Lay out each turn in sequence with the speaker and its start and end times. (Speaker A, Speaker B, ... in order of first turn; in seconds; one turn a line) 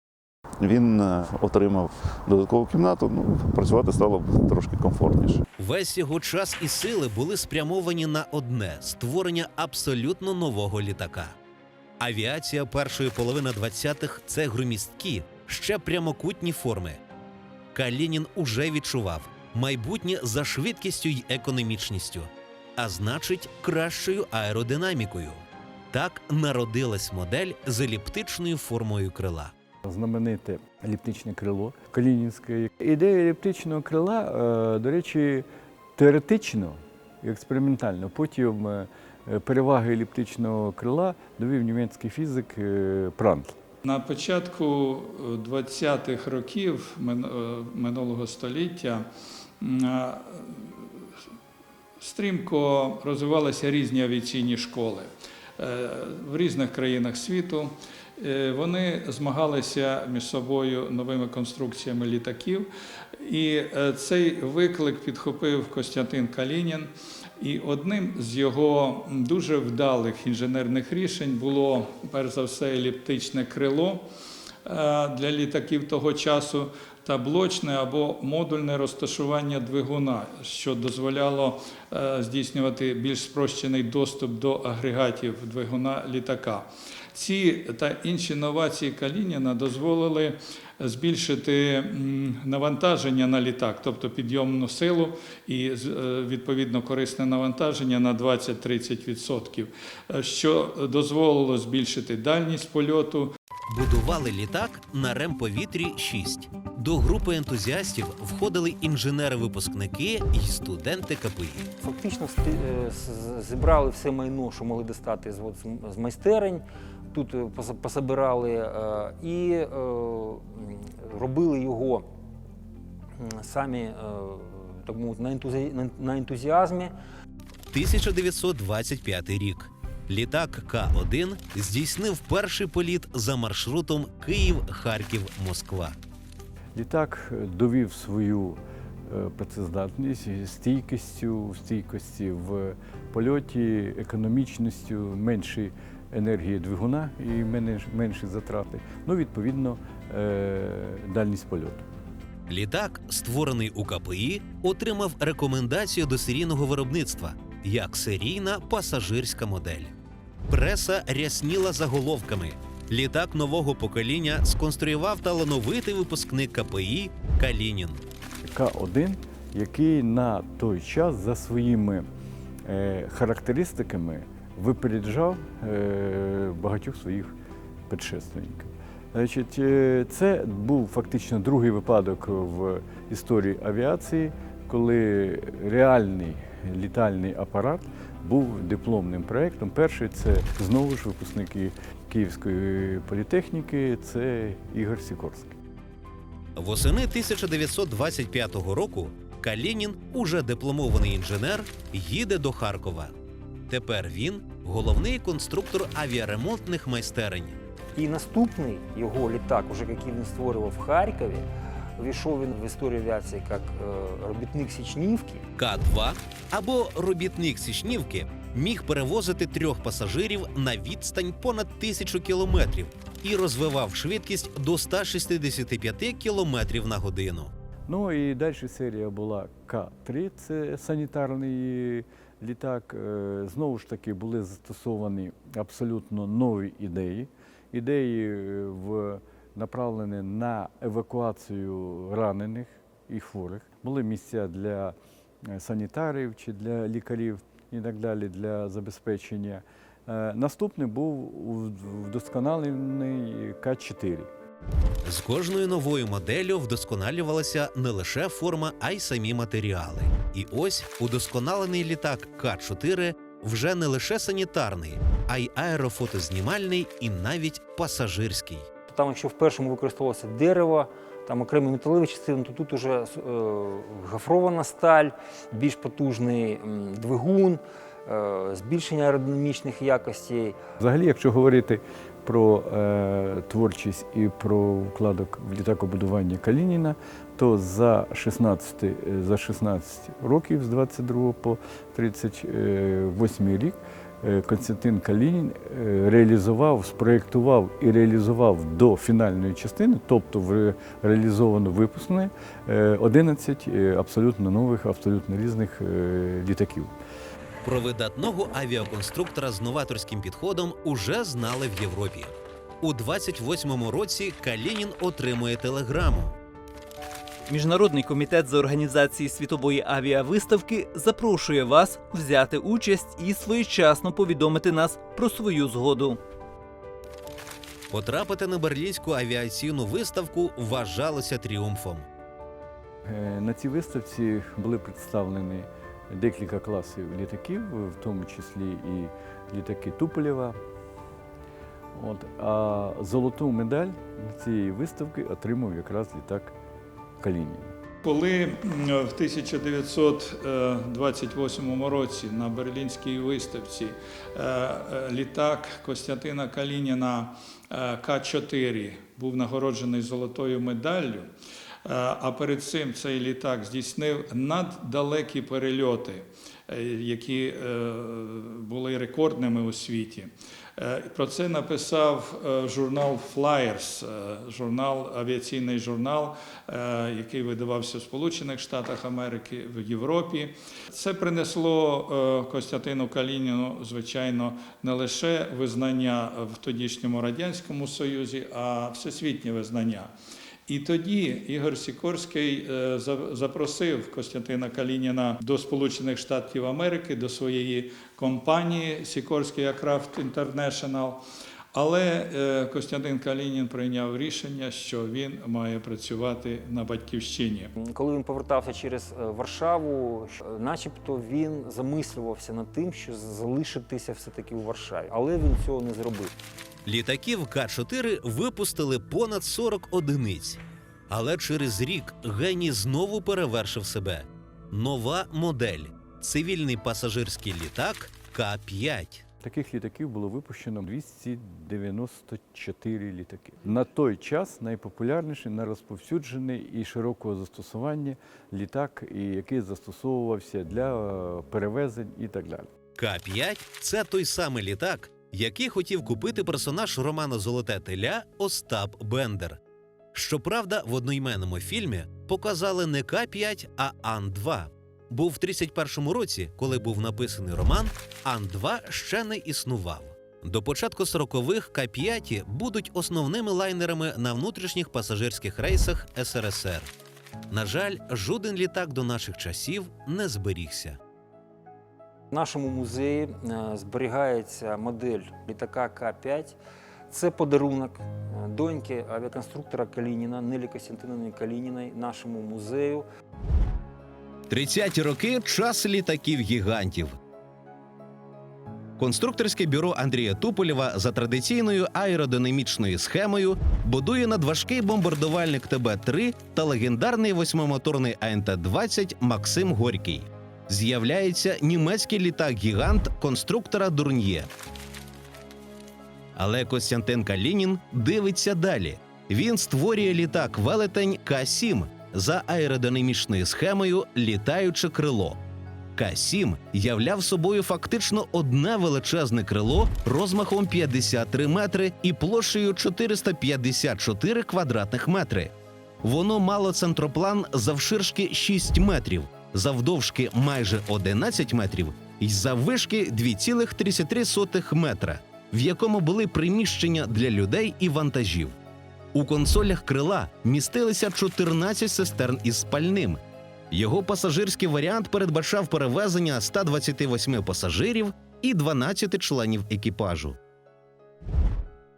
Speaker A: 0.6-5.4
Speaker B: 5.6-11.3
Speaker B: 12.0-17.0
Speaker B: 17.7-29.5
Speaker C: 29.8-43.6
Speaker D: 43.8-49.1
Speaker D: 49.6-51.0
Speaker D: 52.0-74.1
Speaker D: 74.7-103.3
Speaker B: 103.7-111.7
Speaker E: 111.8-122.1
Speaker E: 123.2-126.9
Speaker B: 127.7-136.0
Speaker C: 136.8-151.9
Speaker B: 152.5-159.9
Speaker B: 160.5-168.0
Speaker C: 168.4-172.1
Speaker C: 172.7-177.3
Speaker C: 177.9-195.6
Speaker B: 196.6-203.1
Speaker B: 203.7-207.6
Speaker E: 208.0-215.4
Speaker B: 215.6-227.5
Speaker C: 227.9-254.3
Speaker B: 255.0-268.7
Speaker E: 268.9-280.6
Speaker C: 280.8-306.9
Speaker B: 307.6-316.4
Speaker F: 317.5-326.2
Speaker B: 327.9-332.1
Speaker C: 333.1-340.6
Speaker C: 341.9-346.6
Speaker C: 347.2-347.8
Speaker D: 348.0-361.3
Speaker D: 361.9-390.1
Speaker D: 390.7-401.2
Speaker D: 401.7-407.7
Speaker E: 407.8-416.3
Speaker B: 416.9-429.2
Speaker C: 429.4-442.7
Speaker B: 443.0-449.6
Speaker B: 450.1-466.9
Speaker B: 467.5-471.0
Speaker E: 472.3-476.6
Speaker E: 477.1-483.1
Speaker B: 484.5-487.2
Speaker B: 489.0-504.5
Speaker B: 506.4-515.4
Speaker B: 516.0-538.6
Speaker B: 539.1-543.2
Speaker B: 543.7-550.4